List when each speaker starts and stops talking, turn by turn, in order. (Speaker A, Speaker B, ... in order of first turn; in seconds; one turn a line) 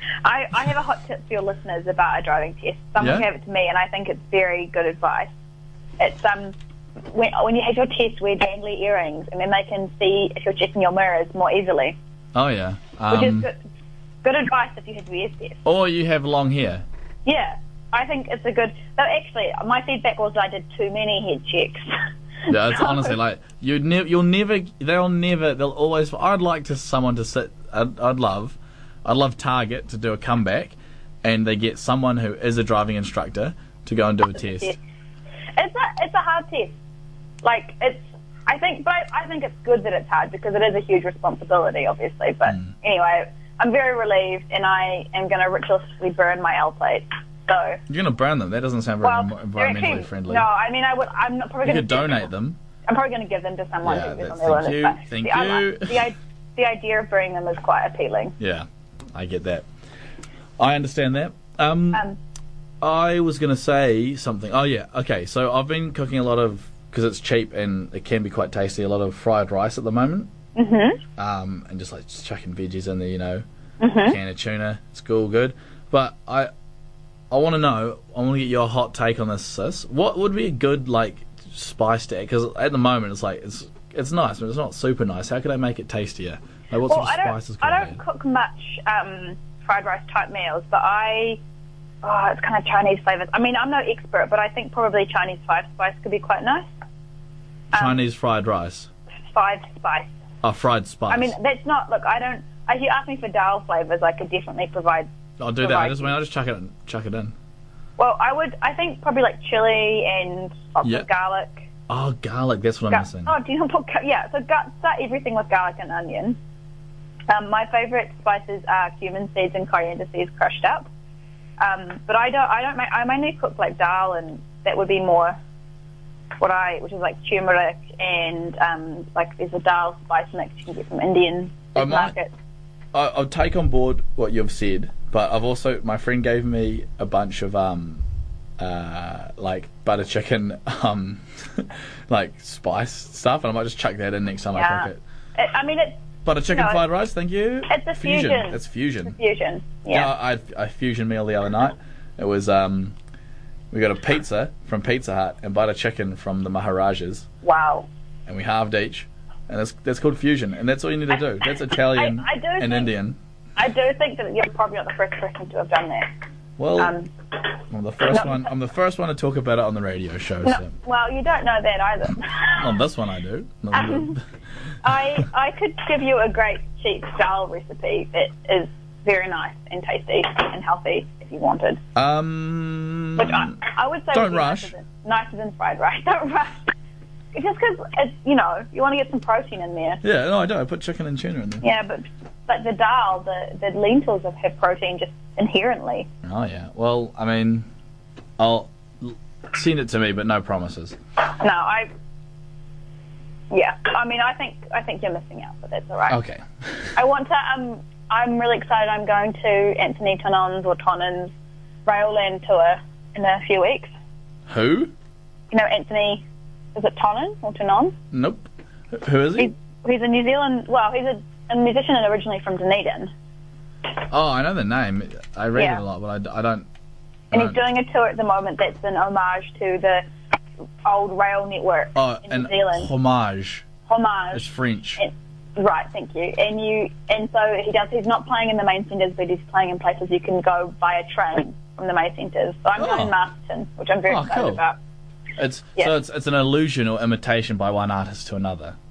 Speaker A: 0.2-5.3
Speaker B: 3.0-3.3
Speaker A: 6.0-6.5
Speaker A: 7.1-12.0
Speaker B: 12.3-13.5
Speaker A: 13.1-13.6
Speaker A: 14.2-15.6
Speaker B: 15.6-16.8
Speaker A: 17.2-21.9
Speaker A: 22.4-23.2
Speaker B: 22.5-34.8
Speaker A: 34.4-34.8
Speaker A: 35.6-36.7
Speaker A: 37.4-47.8
Speaker B: 42.5-42.7
Speaker B: 47.9-50.5
Speaker A: 49.0-52.3
Speaker B: 51.6-52.6
Speaker A: 52.9-58.4
Speaker B: 53.8-56.0
Speaker B: 58.4-59.7
Speaker B: 60.6-62.0
Speaker A: 61.9-62.2
Speaker B: 62.8-70.3
Speaker A: 70.5-71.0
Speaker B: 71.2-73.5
Speaker A: 73.8-74.2
Speaker B: 74.0-76.5
Speaker B: 77.3-88.0
Speaker A: 86.9-91.4
Speaker A: 92.0-96.7
Speaker A: 97.7-98.1
Speaker B: 97.7-98.9
Speaker A: 99.3-100.1
Speaker B: 100.4-101.3
Speaker A: 101.1-106.2
Speaker B: 105.4-107.3
Speaker A: 108.0-111.7
Speaker B: 111.9-113.3
Speaker A: 112.9-116.4
Speaker A: 117.3-120.9
Speaker A: 121.6-125.4
Speaker A: 126.4-132.3
Speaker B: 131.8-132.1
Speaker B: 132.9-138.0
Speaker B: 138.6-145.0
Speaker A: 144.5-146.8
Speaker B: 146.2-149.2
Speaker A: 147.7-150.1
Speaker B: 149.9-152.9
Speaker B: 153.7-157.3
Speaker A: 157.4-157.9
Speaker B: 158.3-163.2
Speaker A: 161.9-162.9
Speaker A: 163.6-166.1
Speaker B: 166.6-166.9
Speaker A: 166.8-167.1
Speaker B: 167.7-170.8
Speaker A: 168.1-168.5
Speaker A: 170.4-172.7
Speaker B: 172.6-174.2
Speaker A: 173.7-174.2
Speaker A: 174.8-181.8
Speaker B: 181.9-183.6
Speaker A: 183.2-186.6
Speaker B: 184.1-184.7
Speaker A: 187.3-190.0
Speaker B: 190.0-191.6
Speaker A: 191.6-196.1
Speaker B: 196.2-197.7
Speaker B: 198.4-201.0
Speaker A: 201.4-201.9
Speaker A: 203.5-206.2
Speaker B: 206.1-206.9
Speaker A: 207.0-211.3
Speaker A: 211.9-213.9
Speaker B: 214.5-214.9
Speaker A: 215.5-216.2
Speaker A: 216.8-217.9
Speaker B: 218.1-219.5
Speaker A: 219.4-223.1
Speaker B: 224.1-226.7
Speaker A: 225.6-225.8
Speaker B: 227.3-227.6
Speaker A: 227.3-230.0
Speaker A: 230.8-232.9
Speaker B: 231.9-233.7
Speaker A: 233.9-234.5
Speaker B: 234.3-235.0
Speaker A: 235.0-244.8
Speaker B: 242.8-243.1
Speaker B: 244.1-244.6
Speaker B: 245.4-248.8